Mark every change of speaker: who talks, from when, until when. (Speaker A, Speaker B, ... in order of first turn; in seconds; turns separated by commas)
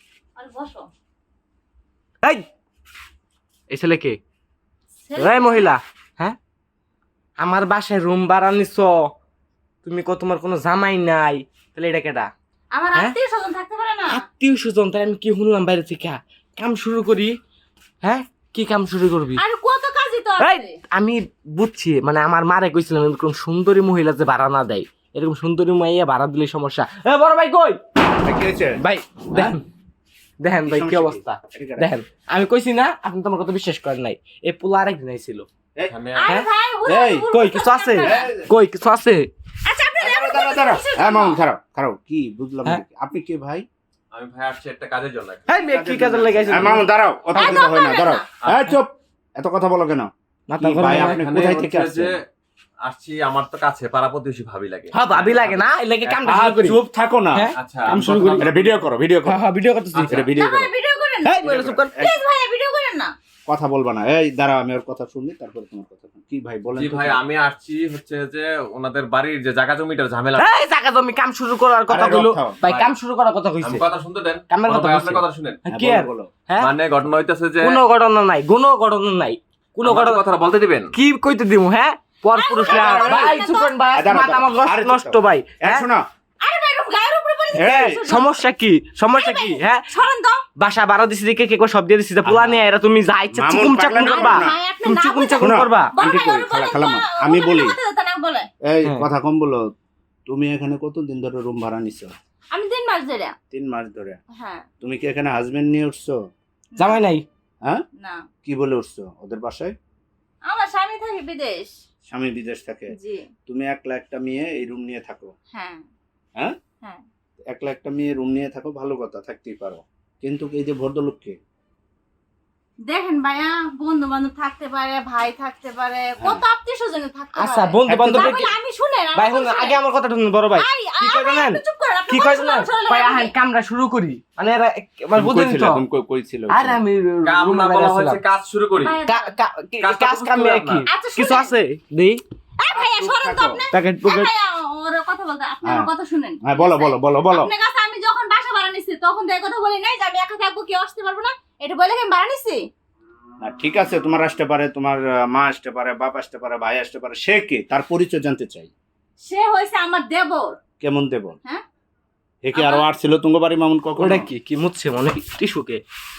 Speaker A: 0.3-0.9, Speaker B: 3.7-4.2, Speaker A: 5.0-5.7, Speaker B: 5.2-6.4, Speaker B: 7.4-9.1, Speaker B: 9.8-12.3, Speaker A: 12.7-14.2, Speaker B: 14.1-17.3, Speaker B: 18.0-19.4, Speaker A: 19.4-20.8, Speaker B: 20.4-27.8, Speaker C: 28.2-28.8, Speaker B: 28.8-29.6, Speaker B: 30.4-35.5, Speaker C: 30.6-31.9, Speaker D: 35.9-36.3, Speaker A: 36.2-38.3, Speaker C: 36.9-37.3, Speaker B: 37.3-39.3, Speaker C: 38.0-38.5, Speaker A: 39.6-41.4, Speaker C: 40.0-43.6, Speaker D: 44.1-45.5, Speaker B: 45.5-46.8, Speaker C: 45.6-52.1, Speaker A: 47.3-48.3, Speaker D: 48.4-48.7, Speaker B: 50.5-51.2, Speaker D: 50.9-52.2, Speaker D: 52.9-55.6, Speaker B: 54.9-56.8, Speaker C: 56.0-59.4, Speaker B: 57.3-58.5, Speaker D: 57.6-58.8, Speaker B: 59.2-60.3, Speaker D: 59.9-60.2, Speaker C: 60.1-60.7, Speaker A: 60.3-63.1, Speaker B: 61.2-61.9, Speaker C: 61.4-62.2, Speaker C: 63.5-67.2, Speaker D: 66.7-70.4, Speaker B: 70.4-73.8, Speaker C: 71.9-72.6, Speaker D: 73.6-75.6, Speaker B: 74.5-76.7, Speaker C: 75.7-76.3, Speaker D: 76.6-77.8, Speaker B: 77.6-80.2, Speaker D: 79.8-80.9, Speaker B: 80.9-85.8, Speaker A: 82.3-83.8, Speaker C: 82.6-83.3, Speaker C: 83.9-86.0, Speaker A: 86.4-88.4, Speaker C: 87.6-88.0, Speaker B: 87.6-89.8, Speaker A: 89.1-90.4, Speaker B: 90.6-95.9, Speaker C: 92.2-92.6, Speaker C: 93.3-94.5, Speaker A: 93.9-98.5, Speaker C: 95.3-97.7, Speaker C: 98.7-99.7, Speaker C: 100.3-102.1, Speaker A: 102.5-103.3, Speaker C: 103.5-104.2, Speaker A: 104.3-104.7, Speaker C: 104.8-106.2, Speaker A: 106.8-107.0, Speaker B: 106.8-107.2, Speaker A: 108.0-108.3, Speaker C: 108.4-109.7, Speaker A: 110.5-111.7, Speaker C: 112.1-112.9, Speaker A: 112.9-113.3, Speaker C: 113.5-115.3, Speaker A: 115.5-115.9, Speaker C: 117.5-121.4, Speaker A: 122.9-129.8, Speaker B: 127.3-128.5, Speaker C: 127.9-128.4, Speaker B: 129.2-135.8, Speaker A: 130.6-133.3, Speaker C: 135.1-136.8, Speaker B: 136.5-138.2, Speaker D: 137.2-139.0, Speaker A: 138.8-139.4, Speaker B: 139.1-142.2, Speaker D: 139.8-140.8, Speaker A: 140.9-141.5, Speaker A: 142.6-152.7, Speaker C: 142.7-143.6, Speaker B: 143.7-144.3, Speaker C: 145.6-145.9, Speaker C: 146.4-147.5, Speaker C: 153.4-158.7, Speaker A: 159.2-160.6, Speaker C: 160.8-161.3, Speaker C: 162.4-164.3, Speaker A: 162.5-162.8, Speaker B: 164.0-165.8